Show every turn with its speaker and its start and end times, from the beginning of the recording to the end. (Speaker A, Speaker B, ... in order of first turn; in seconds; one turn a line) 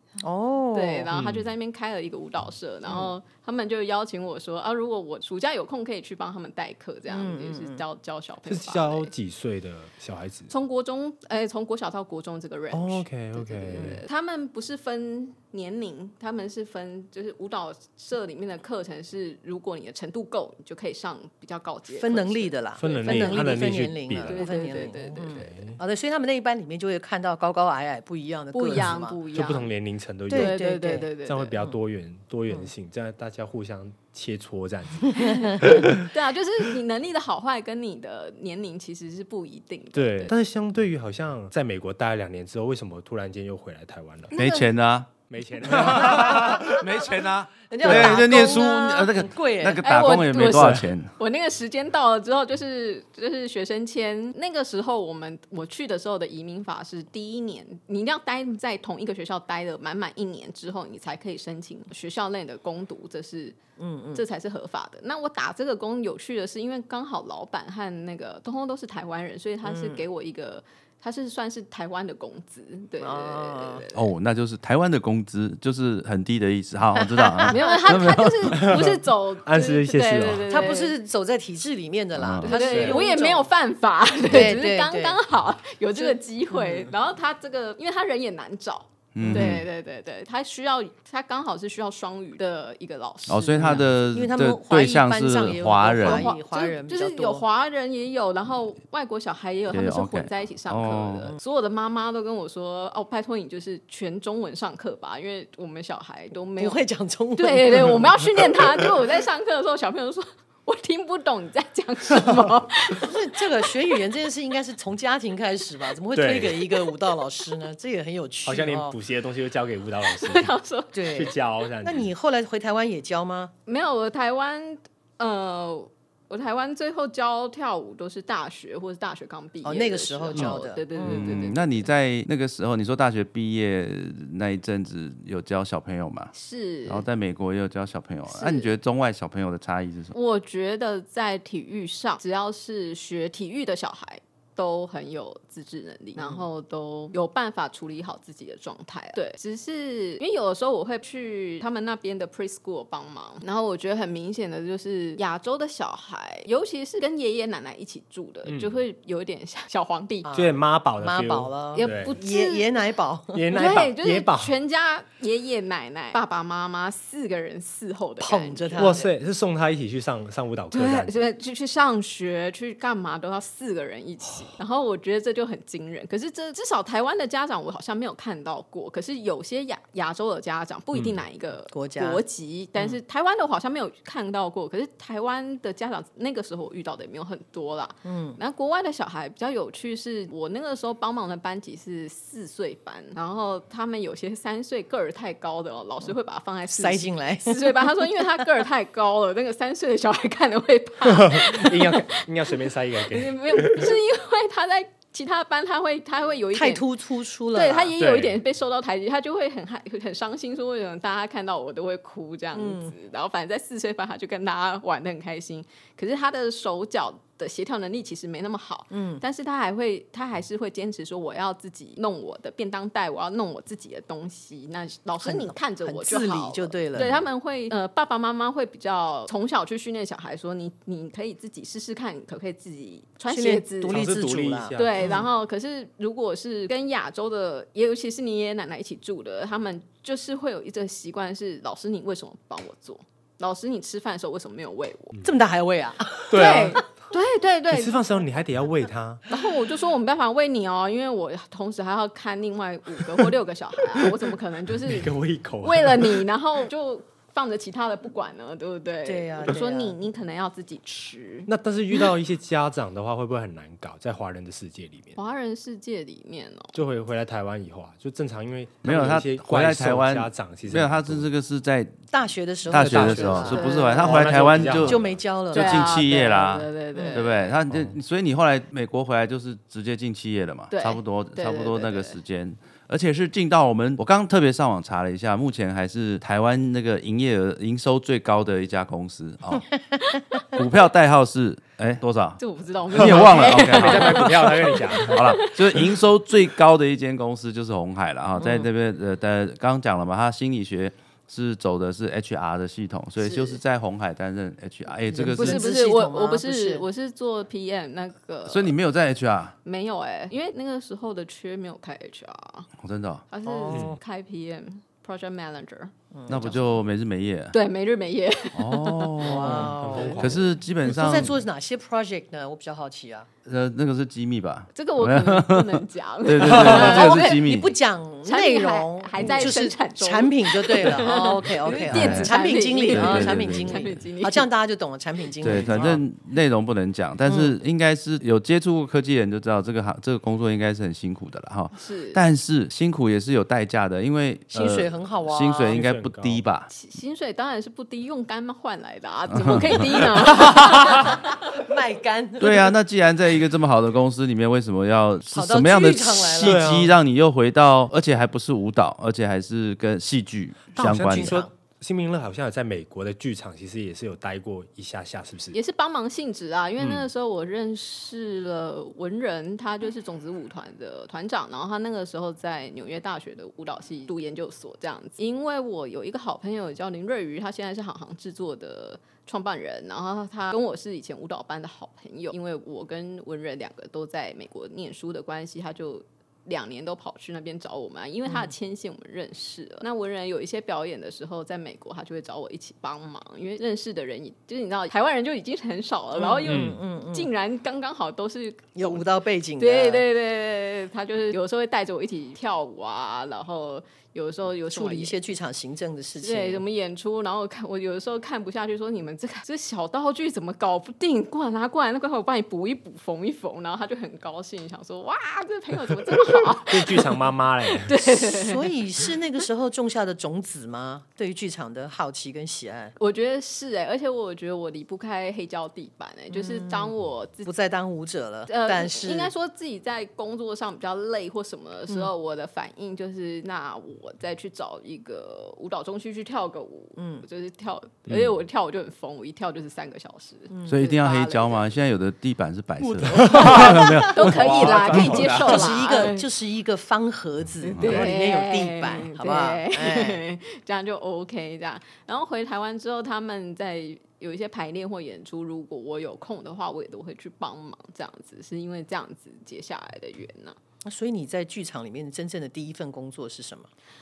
Speaker A: 0.2-1.1
Speaker B: 0.7-9.1
Speaker C: 1.1-1.5
Speaker A: 2.9-3.1
Speaker A: 7.1-7.8
Speaker C: 8.5-10.5
Speaker B: 10.5-25.6
Speaker C: 12.7-14.0
Speaker A: 21.9-29.2
Speaker C: 22.8-24.6
Speaker C: 25.3-25.8
Speaker B: 28.5-29.7
Speaker C: 28.7-30.6
Speaker A: 30.3-31.1
Speaker B: 30.3-31.5
Speaker C: 31.2-36.1
Speaker A: 35.1-35.7
Speaker B: 35.1-40.3
Speaker C: 39.9-44.3
Speaker B: 44.3-44.7
Speaker D: 44.3-45.1
Speaker C: 45.3-46.7
Speaker D: 45.6-51.1
Speaker A: 46.1-46.9
Speaker A: 47.7-49.9
Speaker C: 47.9-48.1
Speaker B: 49.8-63.6
Speaker C: 50.5-50.8
Speaker A: 63.8-64.2
Speaker B: 64.1-74.1
Speaker A: 69.6-70.0
Speaker A: 73.0-73.8
Speaker D: 73.9-78.7
Speaker A: 76.9-77.8
Speaker B: 77.5-80.9
Speaker C: 78.5-80.6
Speaker A: 80.5-83.5
Speaker D: 82.2-82.5
Speaker B: 82.4-93.9
Speaker C: 82.6-83.0
Speaker A: 84.2-85.2
Speaker A: 85.9-86.9
Speaker D: 89.1-89.7
Speaker C: 89.2-89.5
Speaker A: 89.2-89.6
Speaker D: 93.3-96.3
Speaker A: 93.5-97.4
Speaker B: 96.0-106.8
Speaker D: 99.7-101.3
Speaker A: 106.6-108.9
Speaker B: 107.3-113.9
Speaker A: 113.0-119.0
Speaker C: 116.1-116.7
Speaker C: 118.4-120.5
Speaker B: 120.0-121.4
Speaker A: 120.9-123.5
Speaker C: 121.1-122.1
Speaker B: 123.7-131.9
Speaker A: 129.6-131.5
Speaker D: 131.0-136.3
Speaker B: 136.3-137.0
Speaker D: 136.8-140.1
Speaker B: 138.3-138.7
Speaker B: 140.1-160.3
Speaker A: 146.2-146.4
Speaker C: 158.4-158.8
Speaker A: 160.2-163.8
Speaker C: 160.3-162.1
Speaker B: 161.7-162.7
Speaker C: 163.3-164.5
Speaker B: 163.5-169.1
Speaker A: 168.2-169.1
Speaker C: 168.8-171.2
Speaker B: 170.7-206.8
Speaker A: 181.7-182.2
Speaker A: 188.0-188.4
Speaker A: 196.7-197.9
Speaker C: 201.0-203.9
Speaker A: 206.5-207.9
Speaker B: 207.5-234.1
Speaker C: 208.0-208.4
Speaker A: 212.5-212.9
Speaker A: 218.9-219.2
Speaker A: 225.2-227.2
Speaker A: 233.3-235.2
Speaker C: 233.8-235.2
Speaker B: 234.8-245.1
Speaker A: 245.2-246.7
Speaker C: 246.3-246.9
Speaker B: 246.3-248.0
Speaker C: 247.7-249.2
Speaker B: 249.3-261.5
Speaker C: 254.8-256.2
Speaker A: 259.0-260.0
Speaker C: 261.5-265.2
Speaker B: 265.1-266.8
Speaker C: 266.7-271.3
Speaker D: 268.8-271.9
Speaker A: 272.1-276.0
Speaker D: 272.7-289.7
Speaker C: 272.7-275.2
Speaker B: 273.5-274.3
Speaker B: 275.5-277.6
Speaker A: 276.9-277.2
Speaker B: 280.7-282.2
Speaker D: 290.4-305.6
Speaker B: 292.4-296.0
Speaker C: 292.9-295.5
Speaker A: 298.4-298.7
Speaker B: 303.2-303.6
Speaker A: 305.1-306.8
Speaker B: 305.4-308.7
Speaker D: 308.5-309.6
Speaker B: 309.6-312.7
Speaker D: 312.8-313.2
Speaker B: 313.3-316.6
Speaker A: 313.4-313.9
Speaker C: 313.7-314.0
Speaker A: 316.1-316.6
Speaker D: 316.3-317.6
Speaker B: 317.5-320.2
Speaker D: 318.5-321.4
Speaker A: 319.2-323.3
Speaker C: 319.4-320.4
Speaker D: 323.4-327.7
Speaker B: 324.7-327.4
Speaker A: 326.5-336.0
Speaker B: 328.2-334.5
Speaker D: 331.9-332.3
Speaker D: 332.9-333.9
Speaker C: 335.4-336.0
Speaker D: 335.4-346.7
Speaker A: 337.2-337.5
Speaker B: 341.7-342.2
Speaker A: 344.5-345.8
Speaker C: 345.7-346.4
Speaker B: 346.7-351.4
Speaker D: 349.3-350.3
Speaker A: 350.4-352.8
Speaker D: 352.4-361.4
Speaker A: 355.3-356.6
Speaker C: 356.4-356.9
Speaker C: 360.8-365.6
Speaker A: 360.8-361.5
Speaker B: 365.5-399.0
Speaker C: 366.8-367.1
Speaker A: 388.2-388.5
Speaker A: 396.1-397.3
Speaker C: 396.4-396.8
Speaker A: 398.7-400.1
Speaker B: 399.6-405.1
Speaker A: 404.7-406.6
Speaker B: 406.2-418.7
Speaker C: 416.7-418.0
Speaker A: 418.1-422.9
Speaker B: 423.0-427.5
Speaker A: 426.3-426.9
Speaker A: 427.4-429.3
Speaker B: 428.5-441.6
Speaker A: 437.0-437.2
Speaker C: 438.1-438.3
Speaker A: 440.5-440.8
Speaker D: 440.6-443.9
Speaker C: 442.8-445.8
Speaker B: 443.1-446.2
Speaker A: 443.5-444.3
Speaker A: 444.9-450.2
Speaker B: 447.6-460.6
Speaker A: 460.8-463.7